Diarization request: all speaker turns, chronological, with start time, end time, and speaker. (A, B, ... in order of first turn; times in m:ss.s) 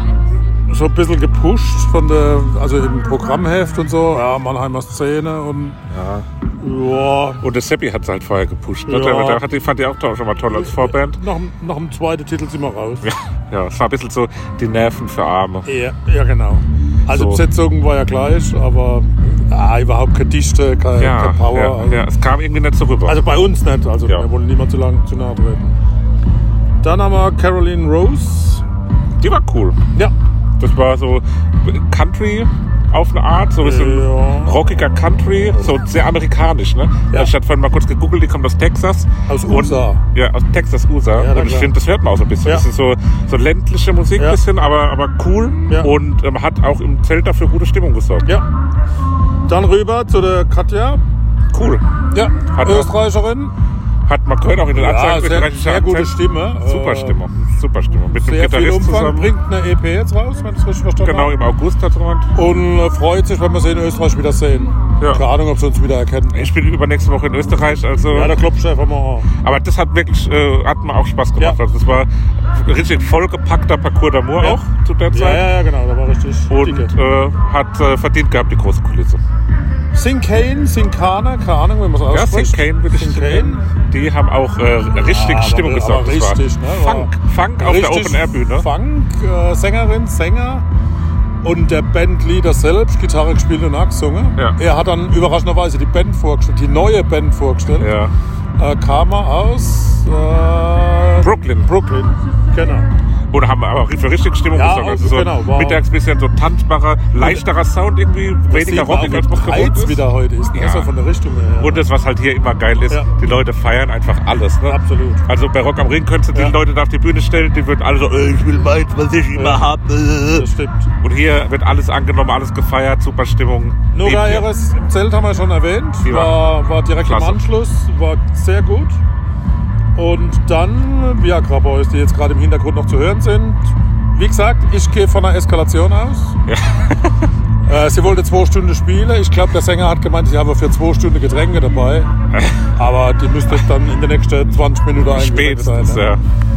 0:00.7-0:05.8 A
0:05.9-0:06.3 B
0:06.6-0:07.4 A
0:07.4-0:11.2 B
0:08.9-0:09.4 A
0:10.5-0:13.1 A
0:13.0-0:15.7 B
0:15.7-0:22.1 A
0:17.1-0:17.4 B
0:21.0-0:23.4 B
0:23.0-0:25.8 A
0:26.8-0:28.6 A
0:29.2-0:29.8 B
0:30.6-0:48.3 B
0:33.6-0:34.6 A
0:39.3-0:40.0 A
0:41.1-0:41.7 A
0:49.5-0:51.0 A
0:51.5-0:51.8 B
0:52.1-0:53.5 A
0:52.5-0:52.9 B
0:54.1-0:59.3 B
0:54.7-0:57.3 A
0:58.2-1:01.4 A
1:01.0-1:02.3 B
1:02.3-1:06.5 A
1:06.3-1:08.4 B
1:08.1-1:09.3 A
1:09.4-1:15.5 B
1:14.4-1:16.9 A
1:16.5-1:19.2 B
1:19.9-1:23.6 A
1:22.1-1:28.7 B
1:25.0-1:30.6 A
1:31.4-1:37.9 A
1:37.8-1:38.2 B
1:38.6-1:42.9 A
1:41.2-1:41.7 B
1:43.3-1:50.9 B
1:44.5-1:45.8 A
1:47.2-1:47.5 A
1:48.5-1:51.9 A
1:51.6-2:00.5 B
1:54.6-1:55.2 A
1:59.3-2:00.9 A
2:01.0-2:04.5 B
2:03.9-2:09.0 A
2:06.0-2:06.4 B
2:07.0-2:07.4 B
2:09.9-2:13.6 A
2:14.1-2:16.4 A
2:16.5-2:17.2 B
2:17.6-2:22.1 A
2:22.8-2:26.1 A
2:25.1-2:26.2 B